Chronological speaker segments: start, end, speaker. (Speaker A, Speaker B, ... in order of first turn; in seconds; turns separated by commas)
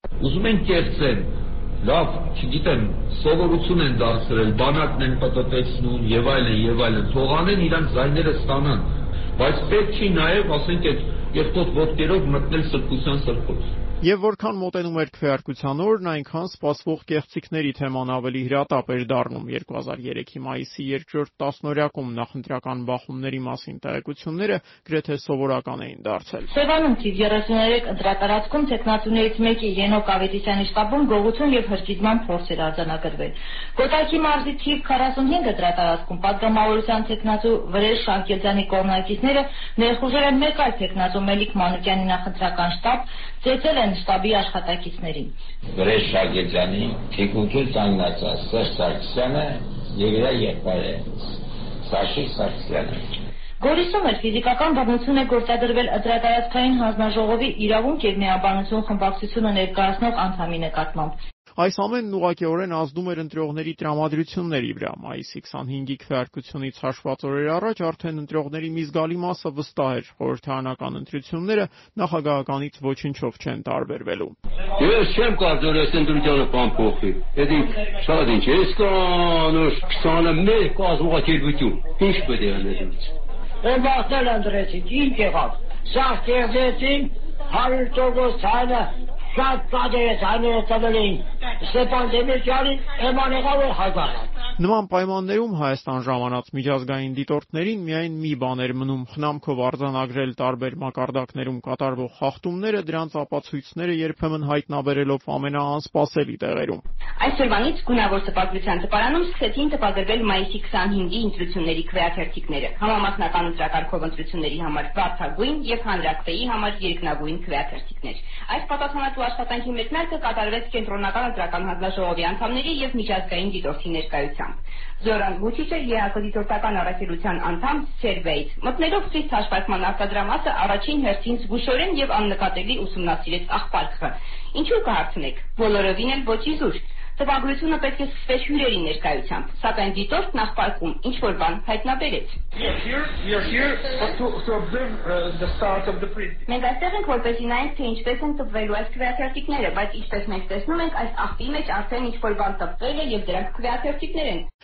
Speaker A: 0.2-13.7, Speaker B: 14.0-26.5, Speaker C: 26.5-45.3, Speaker D: 45.7-53.0, Speaker C: 53.6-61.2, Speaker B: 61.6-74.3, Speaker E: 74.8-83.0, Speaker F: 83.6-94.3, Speaker B: 94.6-106.8, Speaker G: 107.2-142.4, Speaker G: 146.5-154.5